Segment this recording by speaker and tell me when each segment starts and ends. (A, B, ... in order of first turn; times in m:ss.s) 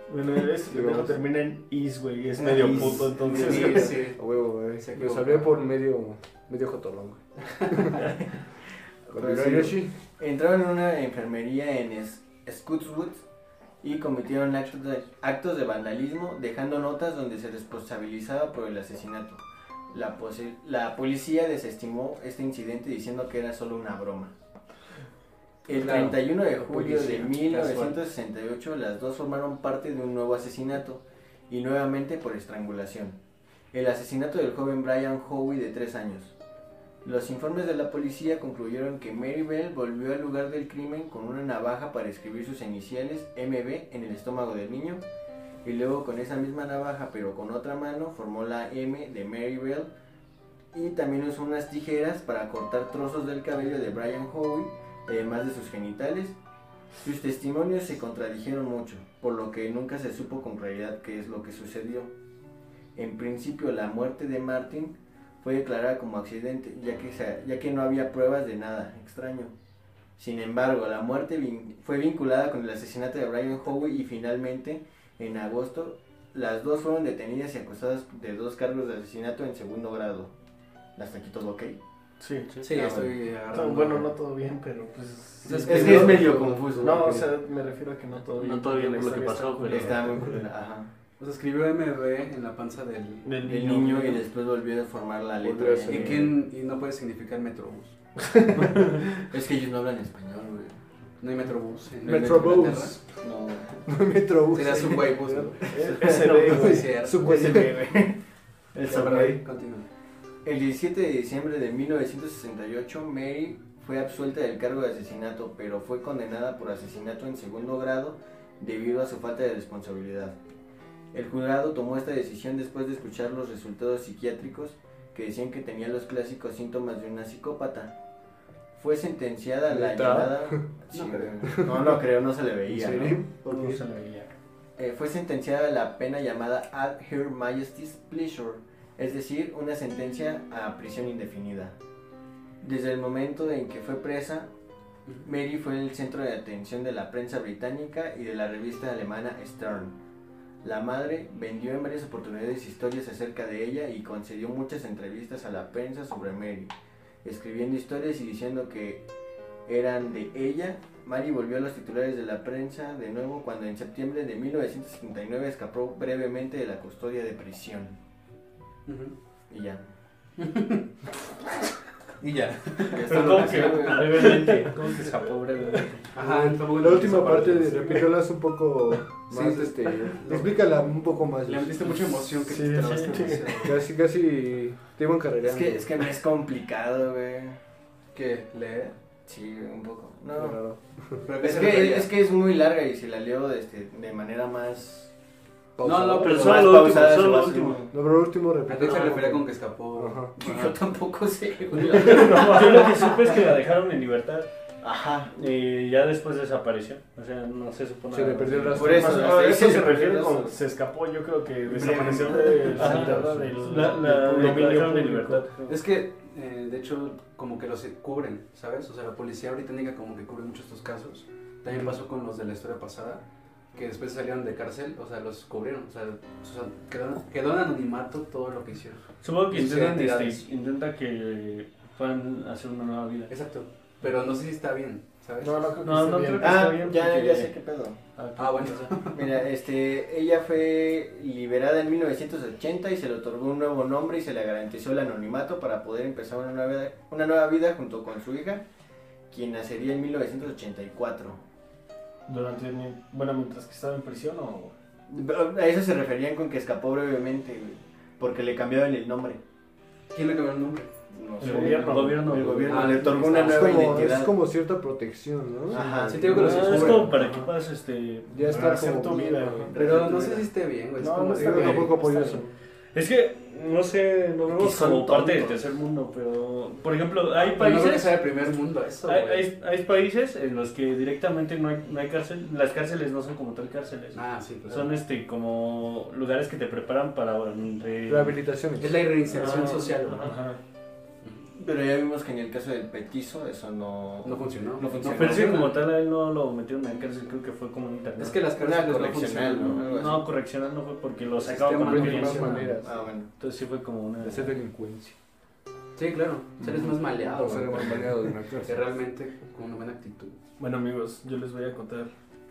0:00.1-0:04.1 A
0:00.7-0:01.2 B
0:02.4-0:03.9 C
0:02.4-0:04.2 D
0:03.4-0:08.1 B
0:04.8-0:05.5 D
0:08.0-0:08.4 C
0:09.1-0:13.2 C
0:09.1-0:09.9 B
0:13.8-0:24.3 C
0:25.7-0:33.2 C
0:25.8-0:27.3 B
0:25.8-0:26.2 D
0:26.8-0:28.0 D
0:33.7-0:36.4 C
0:37.0-0:45.0 C
0:45.6-0:49.9 C
0:50.7-0:56.4 C
0:57.0-1:02.1 C
1:03.0-1:09.5 C
1:10.2-1:20.3 C
1:21.0-1:21.8 C
1:22.2-1:22.6 A
1:22.6-1:24.1 D
1:22.6-1:23.2 C
1:23.5-1:26.3 A
1:25.4-1:26.6 D
1:25.6-1:27.2 C
1:25.7-1:27.3 B
1:26.8-1:30.3 A
1:28.3-1:30.2 E
1:29.7-1:30.9 C
1:31.2-1:33.4 D
1:33.2-1:34.2 A
1:33.4-1:36.3 C
1:35.4-1:36.3 B
1:35.9-1:38.0 D
1:38.2-1:39.0 A
1:38.7-1:40.8 C
1:41.2-1:43.0 D
1:42.0-1:43.0 B
1:43.1-1:43.8 C
1:43.9-1:47.8 B
1:44.5-1:47.5 D
1:45.7-1:47.6 A
1:47.1-1:48.2 C
1:48.7-1:49.4 C
1:48.8-1:49.9 D
1:50.4-2:00.4 C
2:01.1-2:08.0 C
2:08.8-2:13.2 C
2:09.7-2:10.7 B
2:10.9-2:11.3 D
2:11.4-2:12.0 B
2:12.7-2:13.8 B
2:13.4-2:14.3 E
2:14.8-2:21.8 C
2:22.6-2:24.5 C
2:25.2-2:30.0 C
2:30.6-2:39.0 C
2:39.7-2:48.0 C
2:48.9-2:49.1 D
2:49.5-2:49.8 C
2:50.4-2:50.9 D
2:52.2-2:54.5 D
2:52.9-2:54.7 C
2:53.0-2:56.1 E
2:56.1-2:58.1 D
2:56.2-3:01.9 B
2:59.3-3:00.8 D
3:01.4-3:03.8 D
3:02.5-3:03.8 A
3:02.7-3:03.1 E
3:03.6-3:05.9 B
3:05.4-3:07.6 C
3:08.1-3:09.0 D
3:09.3-3:10.6 C
3:10.3-3:11.2 B
3:11.2-3:12.1 D
3:11.4-3:15.1 C
3:15.8-3:16.6 B
3:15.8-3:16.8 D
3:16.2-3:17.8 E
3:16.2-3:17.9 C
3:17.9-3:19.4 B
3:18.7-3:20.8 D
3:20.0-3:20.3 B
3:20.4-3:23.2 C
3:21.9-3:24.5 E
3:22.0-3:22.9 A
3:24.8-3:25.3 C
3:25.3-3:28.9 E
3:28.1-3:29.3 B
3:28.7-3:30.6 C
3:28.8-3:35.5 A
3:31.7-3:33.2 C
3:32.1-3:34.6 B
3:32.8-3:35.8 E
3:35.7-3:50.4 D
3:49.2-3:53.3 E
3:53.3-3:55.5 D
3:55.4-3:56.6 A
3:55.8-3:57.5 E
3:56.4-3:58.0 C
3:58.2-3:59.0 E
3:58.4-3:59.4 D
3:59.1-4:08.6 C
4:09.3-4:11.4 C
4:12.3-4:14.7 A
4:15.1-4:19.4 C
4:20.1-4:20.9 D
4:21.1-4:24.4 C
4:21.4-4:22.6 A
4:21.6-4:23.1 E
4:22.6-4:24.1 D
4:23.3-4:27.5 B
4:25.7-4:27.0 C
4:26.1-4:27.1 D
4:26.3-4:28.5 E
4:28.3-4:29.7 B
4:28.4-4:30.1 A
4:29.7-4:30.5 C
4:29.8-4:32.4 D
4:31.0-4:32.0 A
4:31.4-4:32.5 B
4:32.9-4:38.2 E
4:34.5-4:35.6 C
4:37.4-4:39.5 D
4:39.0-4:48.4 E
4:44.1-4:44.9 D
4:48.1-4:49.1 B
4:48.8-4:50.4 D
4:49.3-4:50.4 E
4:50.2-4:50.6 A
4:51.6-4:55.6 C
4:54.2-4:55.8 D
4:55.0-4:58.4 E
4:58.2-4:59.9 D
4:58.5-5:00.3 C
4:59.7-5:02.7 E
5:01.4-5:02.8 D
5:01.7-5:03.1 B
5:02.8-5:03.3 C
5:03.4-5:04.6 E
5:04.2-5:05.2 B
5:06.0-5:10.4 D
5:07.3-5:08.8 B
5:10.6-5:12.1 A